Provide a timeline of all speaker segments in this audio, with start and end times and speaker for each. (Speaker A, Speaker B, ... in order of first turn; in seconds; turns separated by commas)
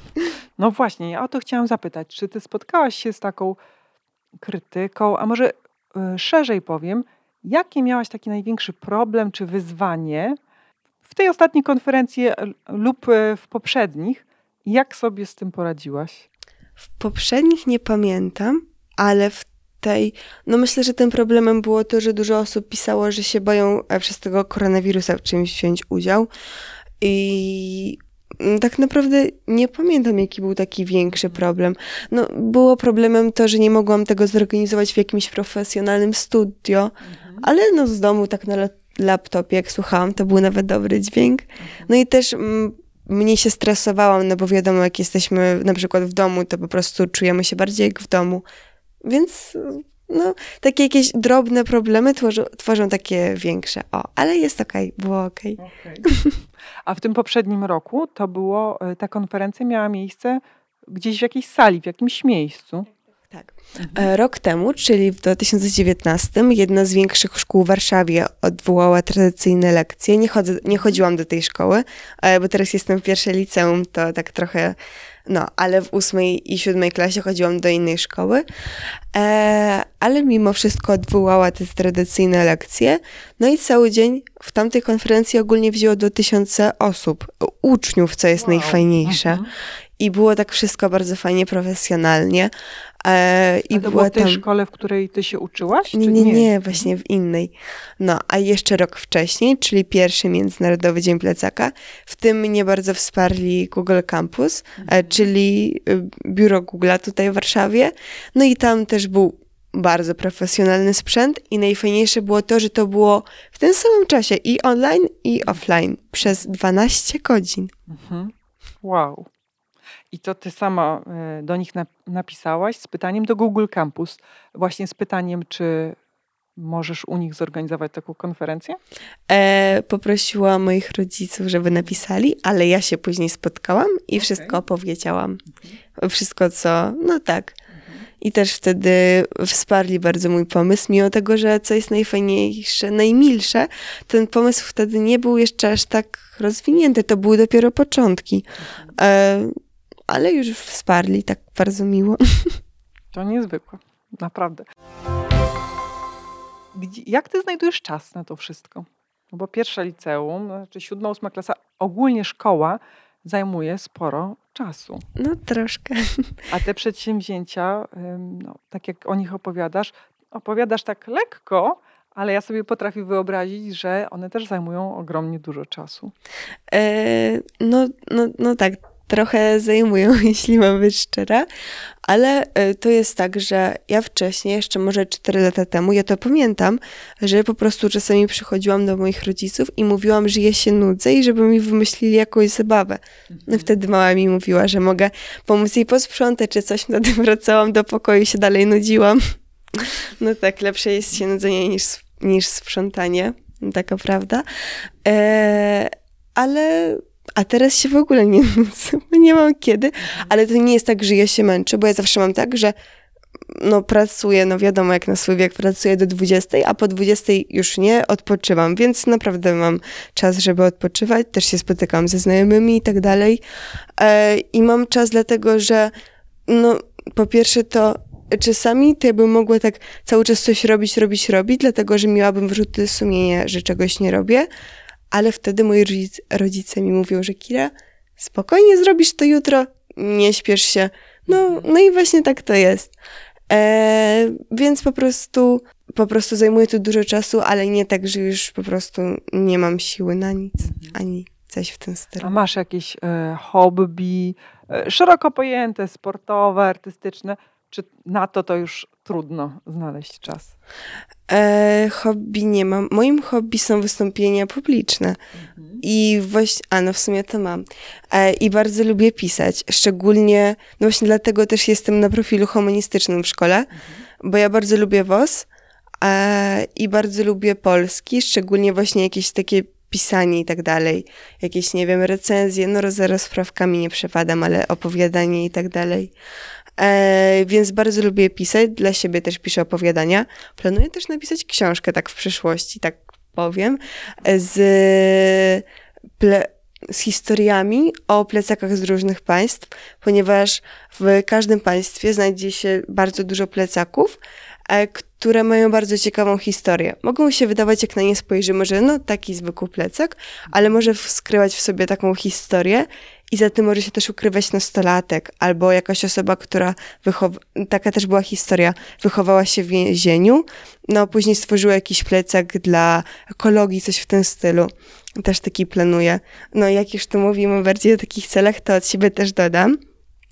Speaker A: 0.6-3.6, Speaker A: 4.4-10.4, Speaker A: 11.0-16.3, Speaker B: 17.0-26.3, Speaker B: 27.0-48.4, Speaker A: 37.0-37.5, Speaker A: 41.6-41.9, Speaker B: 49.0-56.4, Speaker A: 55.6-56.1, Speaker A: 56.9-62.9, Speaker B: 63.3-74.8, Speaker A: 63.8-64.1, Speaker B: 75.3-78.4, Speaker B: 79.1-89.4, Speaker A: 88.4-89.5, Speaker B: 90.0-94.4, Speaker A: 93.7-96.9, Speaker B: 95.9-117.7, Speaker A: 104.8-105.2, Speaker A: 117.9-119.3, Speaker A: 120.1-126.0, Speaker A: 126.6-128.8, Speaker B: 129.3-135.4, Speaker A: 134.2-134.6, Speaker B: 136.0-137.6, Speaker A: 137.7-138.1, Speaker B: 138.2-149.6, Speaker B: 150.1-152.6, Speaker A: 153.1-154.7, Speaker A: 156.7-165.0, Speaker B: 165.2-166.3, Speaker A: 166.5-176.1, Speaker B: 176.7-181.5, Speaker B: 182.1-204.4, Speaker A: 193.3-193.6, Speaker B: 205.0-212.7, Speaker B: 213.5-223.4, Speaker B: 224.0-225.9, Speaker B: 226.5-234.5, Speaker B: 235.1-242.9, Speaker A: 241.3-241.7, Speaker B: 243.5-252.3, Speaker A: 250.6-250.9, Speaker A: 252.2-260.5, Speaker B: 261.3-265.2, Speaker A: 265.4-265.8, Speaker B: 265.8-273.7, Speaker A: 273.7-274.0, Speaker B: 274.2-275.5, Speaker B: 276.0-286.1, Speaker B: 286.8-295.6, Speaker B: 296.2-329.8